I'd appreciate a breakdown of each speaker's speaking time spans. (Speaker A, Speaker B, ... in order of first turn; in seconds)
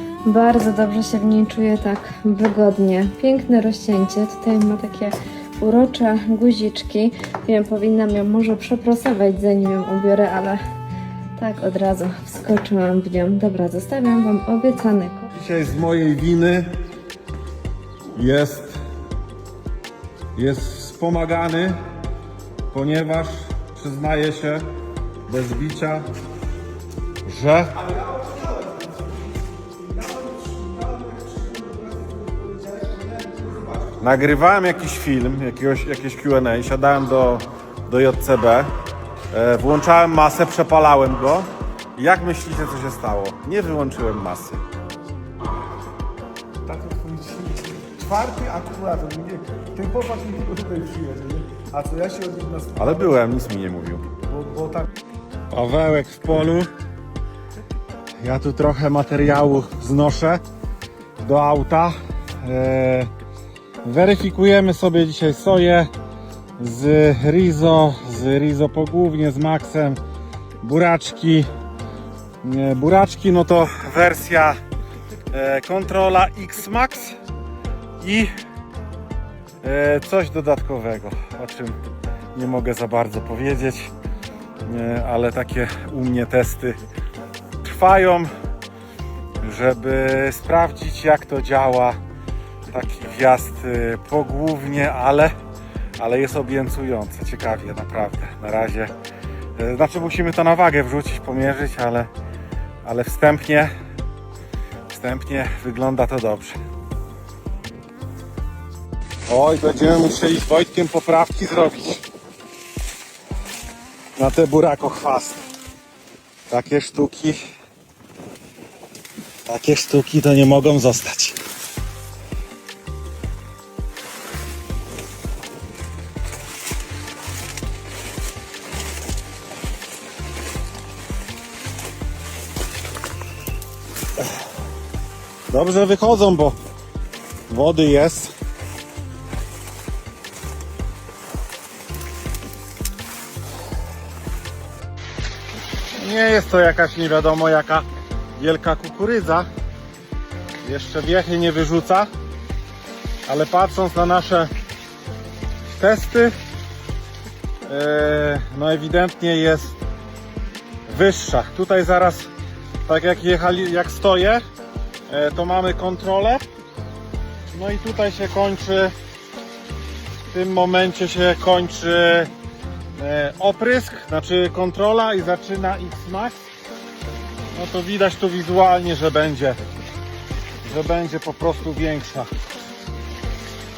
Speaker A: 0.2-10.6, 11.4-15.3
Speaker B: 15.3-16.7, 18.1-18.8, 20.3-21.8, 22.7-24.6, 25.3-26.0, 27.2-27.8, 34.0-38.7, 39.3-44.6, 52.8-54.0, 55.5-56.7, 58.2-60.4, 61.2-63.1, 63.8-65.9, 66.6-70.0, 70.6-71.5, 72.4-74.5, 75.3-77.2, 78.0-78.3, 79.6-81.8, 82.3-83.9, 84.6-86.8, 87.6-88.3, 89.4-92.0, 92.7-95.3, 96.0-98.9, 99.6-102.1, 102.8-103.7, 104.9-106.5, 109.3-112.0, 114.2-115.4, 116.5-117.3, 119.5-121.4, 135.5-136.6, 137.5-138.3, 146.0-147.8, 148.4-149.4, 150.6-152.1, 153.3-154.5, 155.7-156.3, 157.7-159.8, 160.9-162.3, 162.8-164.4, 165.1-166.4, 167.5-168.9, 170.3-172.3, 172.9-176.4, 177.5-179.6, 180.6-182.3
Speaker C: 27.9-28.9, 29.7-34.0, 46.6-53.2, 54.3-54.9